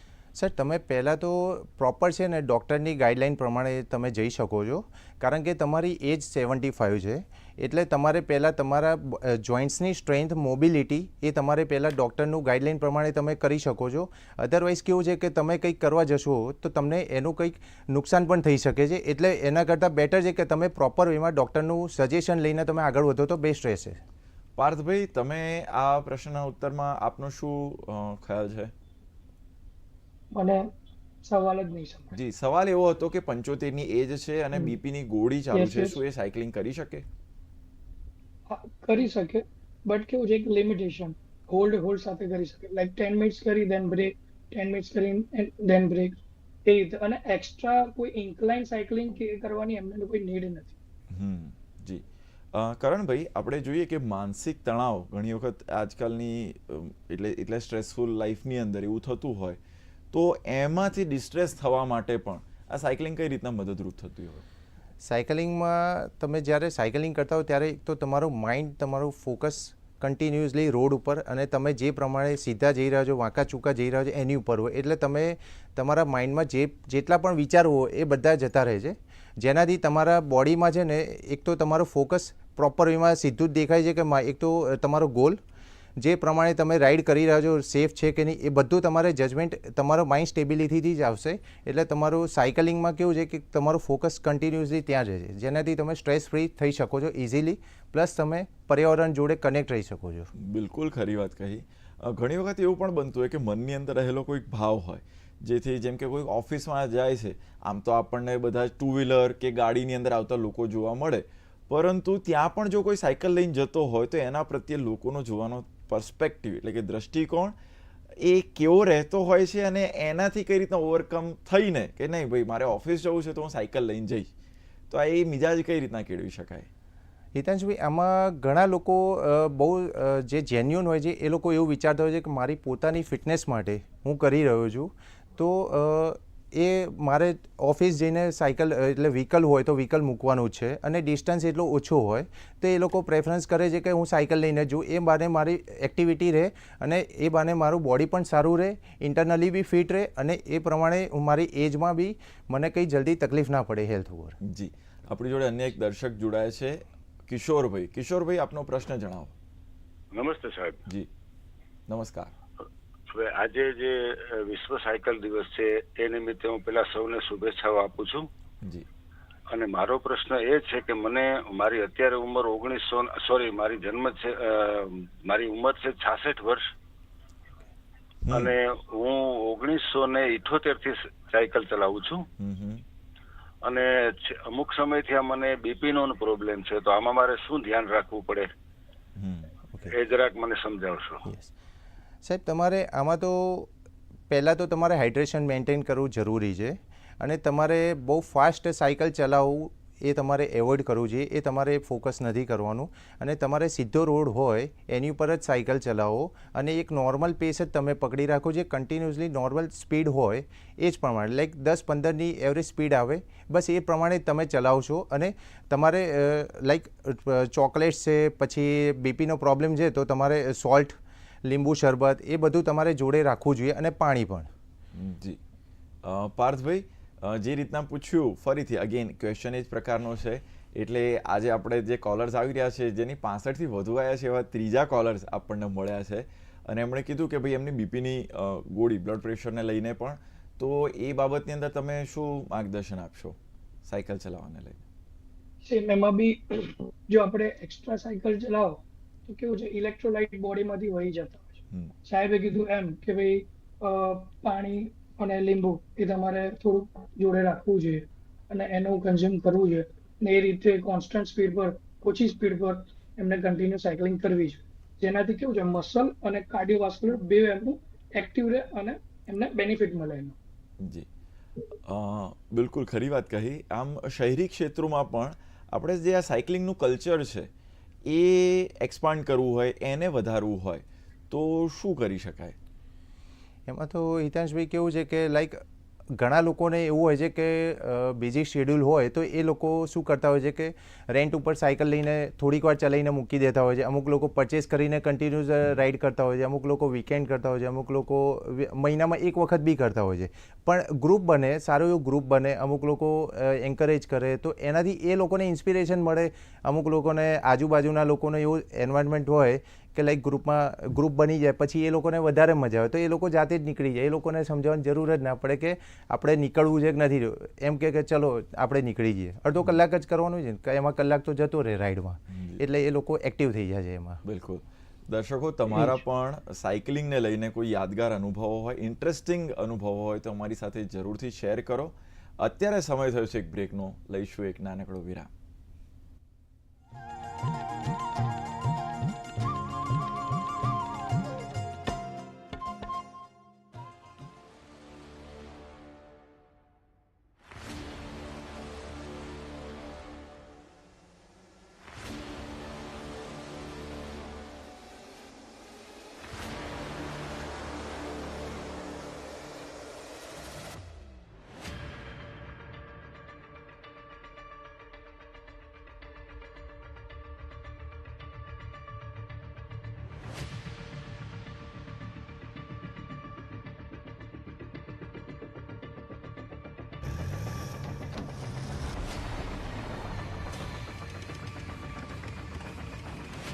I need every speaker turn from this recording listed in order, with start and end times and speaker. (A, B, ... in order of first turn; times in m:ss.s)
0:00.4-0:24.0 A
0:24.6-0:28.7 B
0:30.3-0:30.7 C
0:31.2-0:32.2 C
0:32.1-0:37.1 B
0:35.5-0:36.0 C
0:38.5-0:50.7 C
0:51.1-0:59.6 B
1:00.1-1:04.4 B
1:05.0-1:25.4 A
1:26.0-1:40.3 A
1:40.4-1:57.6 B
1:58.2-2:04.3 B
2:04.9-2:06.7 B
2:07.4-2:34.4 A
2:34.4-2:39.4 B
2:40.1-2:40.8 D
2:41.9-2:42.3 B
2:43.1-2:48.3 D
2:49.5-2:56.6 D
2:58.2-2:58.5 B
2:58.3-3:02.2 D
3:02.4-3:02.8 B
3:03.6-3:08.5 D
3:09.2-3:09.5 B
3:09.9-3:11.3 D
3:11.2-3:11.5 A
3:12.2-3:13.7 A
3:14.3-3:44.5 A
3:44.9-3:45.4 B
3:46.0-4:04.8 B
4:05.6-4:30.4 C
4:30.8-4:31.1 B
4:31.9-4:37.5 B
4:38.1-4:42.6 B
4:43.7-4:45.6 A
4:46.2-5:24.2 A
5:22.3-5:22.6 B
5:24.2-5:35.3 B